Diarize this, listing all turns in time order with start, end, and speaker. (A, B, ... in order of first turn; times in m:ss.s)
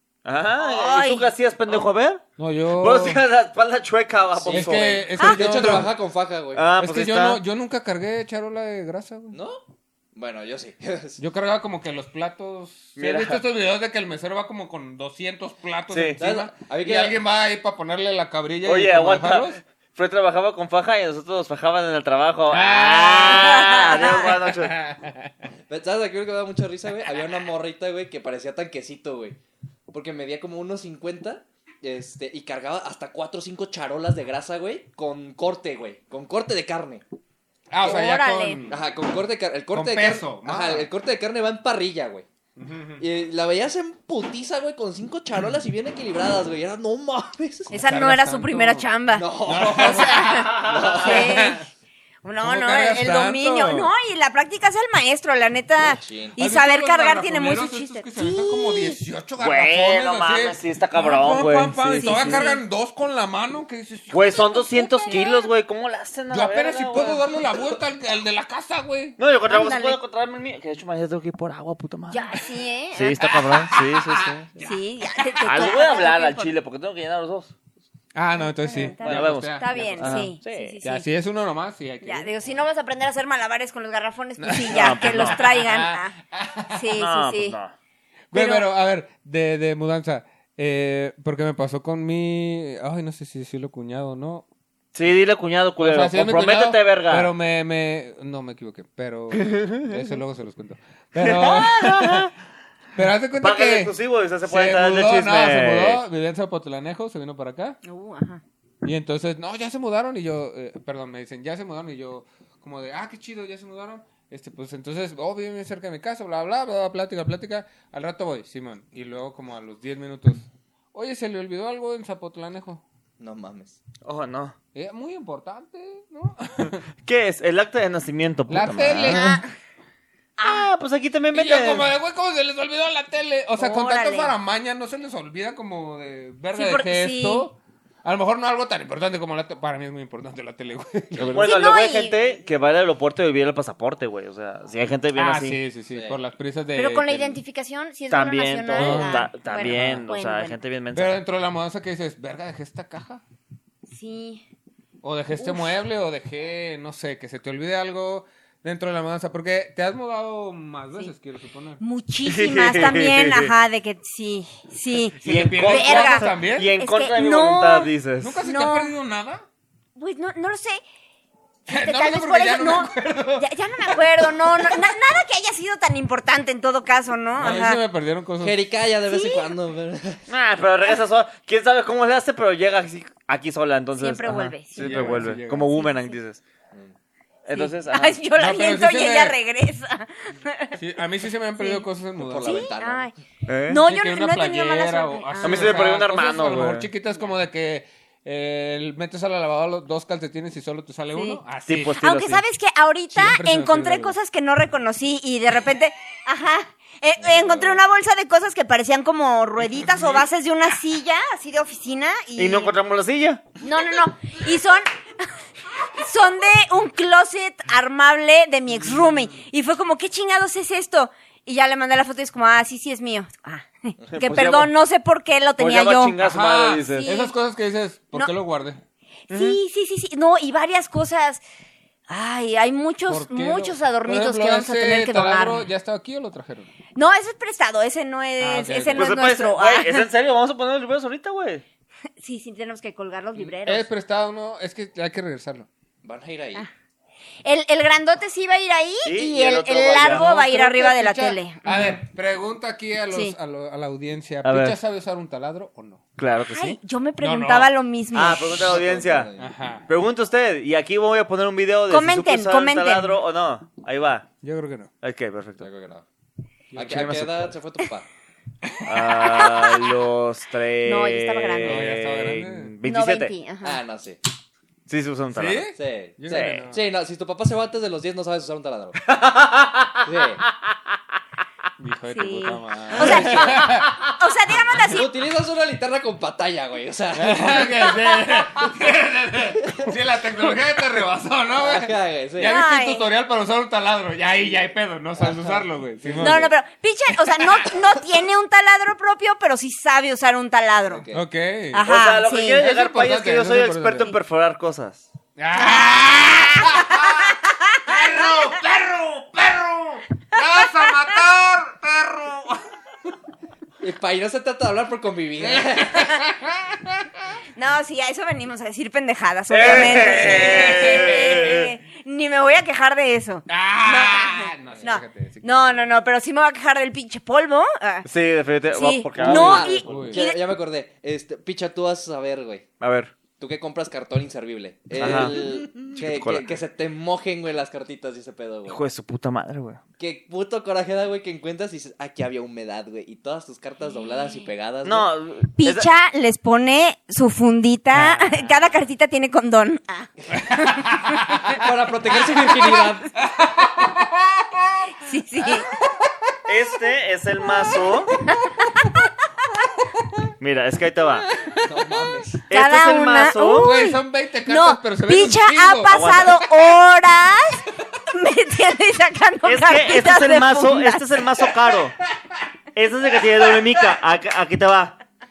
0:00.2-0:02.2 A
0:00.6-0:01.2 B
0:02.4-0:03.2 C
0:02.8-0:05.1 A
0:04.3-0:06.6 D
0:04.5-0:05.9 C
0:05.2-0:05.4 B
0:06.5-0:07.4 A
0:06.8-0:09.4 C
0:09.3-0:09.6 D
0:10.1-0:11.2 D
0:11.2-0:19.6 C
0:13.0-0:13.4 A
0:15.9-0:16.2 A
0:16.2-0:17.2 D
0:18.6-0:24.8 A
0:22.5-0:25.4 C
0:23.2-0:24.3 B
0:25.7-0:29.4 D
0:29.9-0:37.0 D
0:37.7-0:38.8 C
0:37.8-0:38.6 B
0:38.7-0:42.3 D
0:39.7-0:40.9 C
0:42.6-0:43.0 C
0:43.0-0:47.7 D
0:47.7-0:48.9 C
0:47.7-0:51.6 B
0:49.1-0:51.6 D
0:49.4-0:51.6 C
0:50.5-0:51.0 A
0:52.2-0:59.0 B
0:52.4-0:53.9 C
0:55.9-0:56.4 D
0:56.4-1:04.4 C
0:59.4-1:02.4 A
1:01.8-1:02.6 B
1:04.1-1:07.2 A
1:04.4-1:05.5 B
1:06.3-1:09.2 C
1:09.2-1:12.4 A
1:09.4-1:10.0 B
1:12.1-1:13.2 B
1:12.9-1:14.7 A
1:13.2-1:15.8 C
1:14.6-1:16.5 B
1:15.4-1:17.5 A
1:18.1-1:20.3 C
1:18.6-1:21.0 B
1:19.0-1:20.8 A
1:20.8-1:22.3 C
1:22.0-1:26.1 B
1:24.4-1:26.9 C
1:24.7-1:25.4 A
1:26.7-1:27.6 B
1:26.9-1:27.7 A
1:28.3-1:34.4 C
1:28.3-1:28.6 B
1:34.9-1:37.3 A
1:35.8-1:42.3 C
1:39.3-1:40.0 A
1:41.2-1:42.3 A
1:42.9-1:43.9 C
1:43.4-1:46.0 A
1:44.4-1:47.8 C
1:47.8-1:48.4 B
1:48.8-2:02.8 C
2:03.2-2:03.8 D
2:04.0-2:04.5 A
2:04.7-2:06.8 C
2:07.0-2:09.4 A
2:08.5-2:09.4 C
2:09.1-2:09.4 B
2:10.4-2:11.9 A
2:10.4-2:10.6 B
2:11.3-2:21.5 C
2:13.6-2:14.3 B
2:16.5-2:17.5 B
2:21.2-2:25.6 A
2:21.3-2:22.2 B
2:25.1-2:27.4 C
2:25.9-2:26.2 D
2:26.7-2:30.6 B
2:28.1-2:31.2 A
2:28.7-2:30.0 C
2:30.9-2:33.2 C
2:33.9-2:34.4 B
2:35.0-2:41.8 C
2:35.4-2:35.7 B
2:41.8-2:47.9 B
2:42.2-2:43.5 A
2:45.2-2:46.7 C
2:45.2-2:48.4 A
2:48.2-2:49.4 C
2:48.4-2:48.9 B
2:50.0-2:50.8 B
2:51.7-2:54.0 C
2:51.7-2:57.8 B
2:57.3-2:58.6 C
2:58.4-3:00.2 D
2:59.1-2:59.5 B
3:00.3-3:06.4 A
3:04.0-3:05.2 B
3:04.8-3:05.7 C
3:07.4-3:08.2 A
3:07.5-3:10.8 B
3:08.4-3:09.4 C
3:10.7-3:12.7 C
3:11.6-3:11.8 B
3:12.2-3:13.1 D
3:12.4-3:13.1 B
3:13.5-3:13.8 A
3:13.7-3:15.8 B
3:13.7-3:22.0 C
3:15.4-3:16.9 A
3:21.1-3:21.4 B
3:21.7-3:22.4 A
3:22.0-3:32.7 B
3:23.1-3:24.2 C
3:27.2-3:27.8 D
3:32.4-3:33.4 A
3:33.6-3:35.3 B
3:35.8-3:46.1 B
3:38.8-3:39.3 C
3:44.1-3:44.7 A
3:45.6-3:47.1 A
3:46.2-3:48.8 C
3:47.0-3:47.3 B
3:49.3-3:49.6 A
3:49.3-3:51.4 B
3:52.1-3:55.6 B
3:53.1-3:56.7 C
3:56.9-4:00.0 B
3:58.4-3:59.1 C
3:58.9-4:01.6 A
4:02.2-4:03.9 B
4:03.6-4:05.7 C
4:06.0-4:06.6 D
4:07.4-4:12.0 B
4:09.0-4:10.2 A
4:10.0-4:16.0 C
4:14.4-4:14.8 A
4:16.2-4:16.8 A
4:16.5-4:18.6 B
4:17.2-4:17.7 C
4:18.1-4:19.3 A
4:18.5-4:19.5 D
4:19.4-4:19.9 C
4:19.9-4:24.3 A
4:21.9-4:23.1 B
4:24.4-4:24.9 C
4:25.0-4:25.6 A
4:25.6-4:26.0 D
4:26.7-4:27.0 C
4:26.7-4:28.0 D
4:26.8-4:27.6 A
4:28.6-4:29.6 C
4:28.8-4:33.3 A
4:30.8-4:31.9 B
4:31.6-4:32.7 C
4:32.8-4:33.8 B
4:33.6-4:34.2 D
4:34.9-4:35.7 A
4:35.3-4:36.8 C
4:35.8-4:39.0 D
4:39.0-4:40.0 A
4:40.0-4:40.4 D
4:41.8-4:44.0 C
4:42.1-4:45.1 B
4:42.9-4:43.8 D
4:44.7-4:48.0 D
4:47.1-4:56.5 C
4:49.6-4:49.9 D
4:51.6-4:52.6 D
4:52.4-4:53.0 B
4:55.2-4:56.5 D
4:56.2-5:01.0 B
5:00.9-5:01.2 D
5:01.1-5:01.9 C
5:01.7-5:02.6 B
5:01.8-5:05.1 A
5:02.5-5:04.1 C
5:05.4-5:12.6 C
5:05.6-5:08.0 B
5:10.6-5:10.9 B
5:13.8-5:16.1 D
5:15.4-5:17.2 C
5:17.6-5:28.0 B
5:19.5-5:21.7 A
5:19.6-5:21.7 C
5:23.5-5:25.9 C
5:28.0-5:30.0 A
5:28.7-5:30.4 B
5:29.2-5:32.7 D
5:29.9-5:30.2 C
5:32.8-5:33.1 A
5:33.4-5:38.8 D
5:34.9-5:35.5 C
5:35.0-5:36.5 A
5:38.7-5:39.8 A
5:40.0-5:45.1 D
5:44.8-5:45.9 A
5:45.6-5:50.1 B
5:50.4-5:51.6 C
5:51.4-5:53.1 D
5:52.2-5:56.1 C
5:55.0-5:55.7 B
5:56.5-5:58.2 A
5:58.1-5:59.1 B
6:00.4-6:01.3 A
6:01.5-6:11.0 B
6:01.6-6:02.4 D
6:02.5-6:03.7 A
6:03.6-6:06.2 C
6:05.9-6:06.4 A
6:09.4-6:12.0 A
6:12.7-6:14.9 A
6:13.1-6:13.9 C